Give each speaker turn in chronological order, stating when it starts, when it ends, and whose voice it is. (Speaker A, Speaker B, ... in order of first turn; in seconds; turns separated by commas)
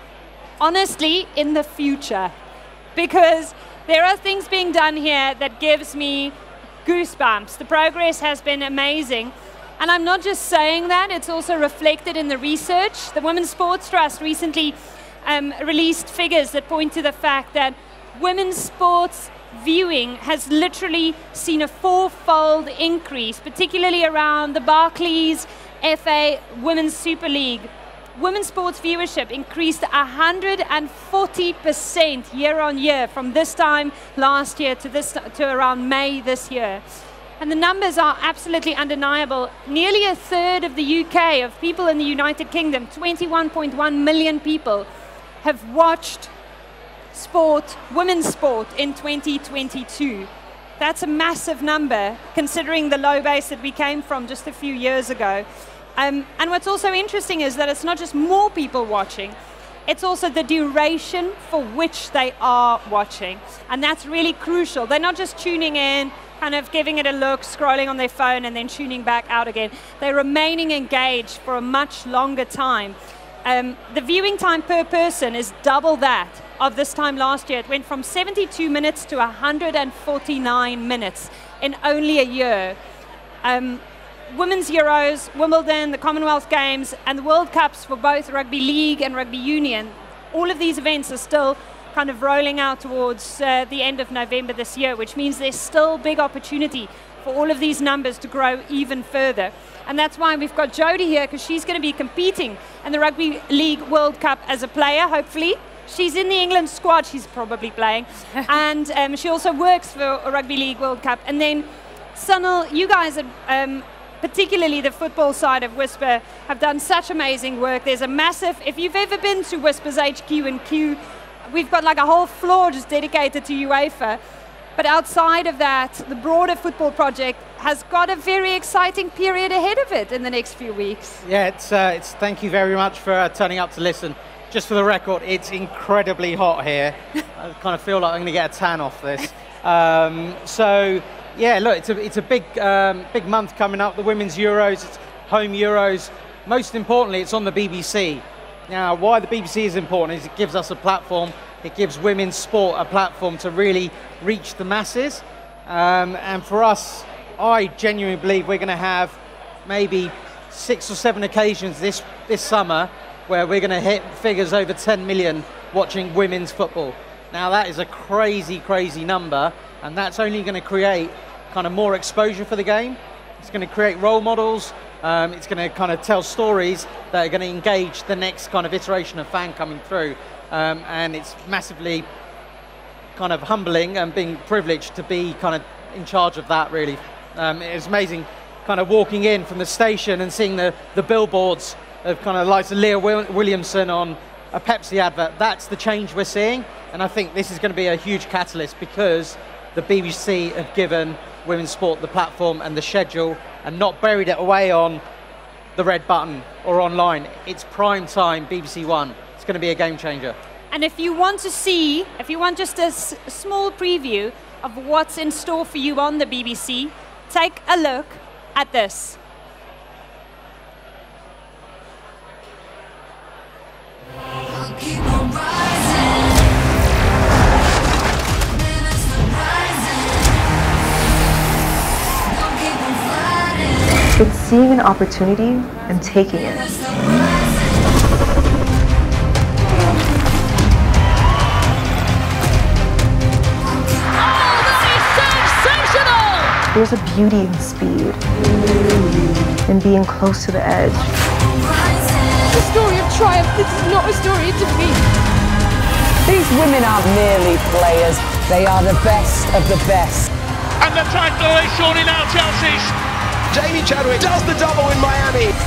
Speaker A: 0.6-2.3, Speaker A: 2.9-36.8, Speaker A: 37.4-44.9, Speaker A: 45.4-46.3, Speaker A: 47.1-55.5, Speaker A: 56.0-82.8, Speaker A: 83.4-124.2, Speaker A: 124.8-131.2, Speaker B: 131.2-182.1, Speaker B: 183.2-205.0, Speaker B: 205.8-210.3, Speaker A: 210.7-219.2, Speaker C: 234.2-236.8, Speaker D: 244.1-246.6, Speaker C: 246.7-248.2, Speaker C: 249.7-251.0, Speaker D: 252.5-255.0, Speaker E: 256.2-260.3, Speaker F: 260.8-262.9, Speaker G: 263.5-265.5